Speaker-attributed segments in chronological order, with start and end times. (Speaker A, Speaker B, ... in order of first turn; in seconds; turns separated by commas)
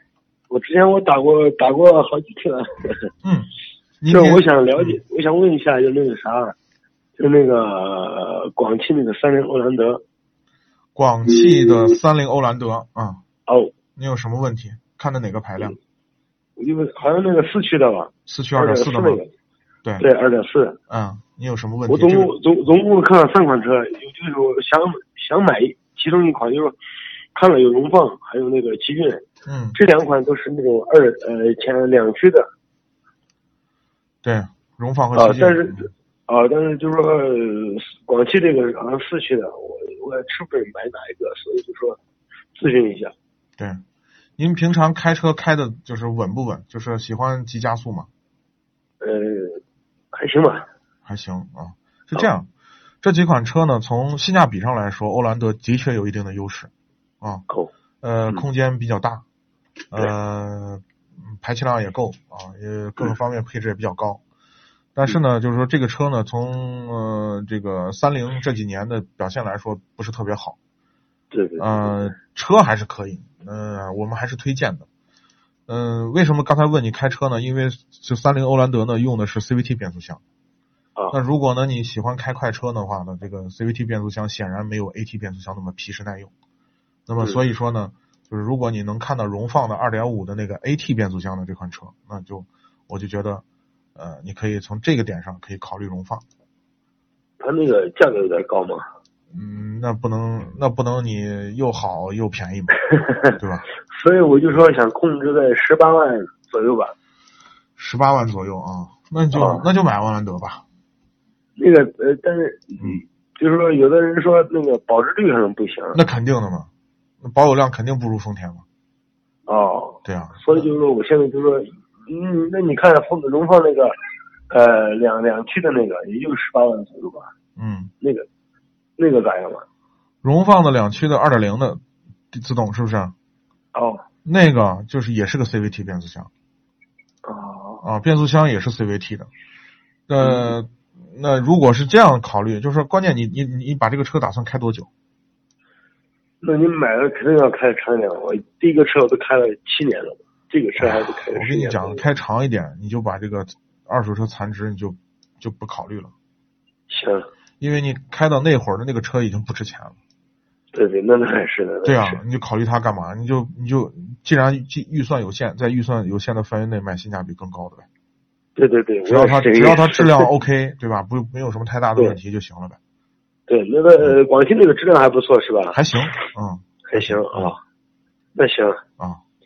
Speaker A: 0.5-3.1, Speaker B: 3.2-5.0, Speaker A: 4.1-6.5, Speaker A: 7.2-10.0, Speaker B: 10.9-13.2, Speaker A: 13.5-13.7, Speaker B: 14.0-15.8, Speaker A: 16.6-19.3, Speaker B: 18.3-19.2, Speaker A: 20.0-20.8, Speaker B: 20.9-22.3, Speaker A: 21.9-26.8, Speaker A: 27.3-29.2, Speaker B: 29.5-29.8, Speaker A: 29.8-32.5, Speaker B: 34.2-35.9, Speaker A: 35.1-42.0, Speaker A: 42.5-43.1, Speaker B: 44.4-48.1, Speaker A: 49.0-49.6, Speaker A: 50.1-50.6, Speaker B: 51.0-52.5, Speaker B: 53.0-57.5, Speaker B: 58.0-59.2, Speaker B: 59.9-64.2, Speaker B: 65.0-70.6, Speaker A: 71.3-72.1, Speaker B: 71.6-74.9, Speaker B: 75.7-80.2, Speaker B: 81.1-86.3, Speaker B: 87.1-93.4, Speaker B: 94.0-96.2, Speaker A: 97.4-98.8, Speaker B: 99.3-103.7, Speaker A: 103.9-106.9, Speaker B: 107.8-110.6, Speaker A: 109.3-109.6, Speaker A: 111.6-116.0, Speaker B: 115.9-116.7, Speaker B: 117.2-118.6, Speaker A: 119.5-123.9, Speaker B: 120.0-120.7, Speaker A: 124.5-127.3, Speaker B: 127.6-127.9, Speaker A: 128.0-128.3, Speaker A: 129.0-129.6, Speaker B: 130.2-131.8, Speaker B: 132.3-133.1, Speaker A: 133.7-134.0, Speaker B: 134.2-136.3, Speaker A: 137.2-137.8, Speaker B: 137.8-139.3, Speaker B: 140.1-144.9, Speaker A: 140.2-140.6, Speaker A: 146.4-152.0, Speaker B: 150.8-156.1, Speaker A: 156.9-157.2, Speaker B: 157.6-160.0, Speaker A: 160.7-162.2, Speaker B: 161.8-167.8, Speaker A: 168.6-170.3, Speaker B: 169.1-172.8, Speaker A: 173.5-175.8, Speaker B: 175.7-177.6, Speaker A: 176.8-177.6, Speaker A: 178.3-178.8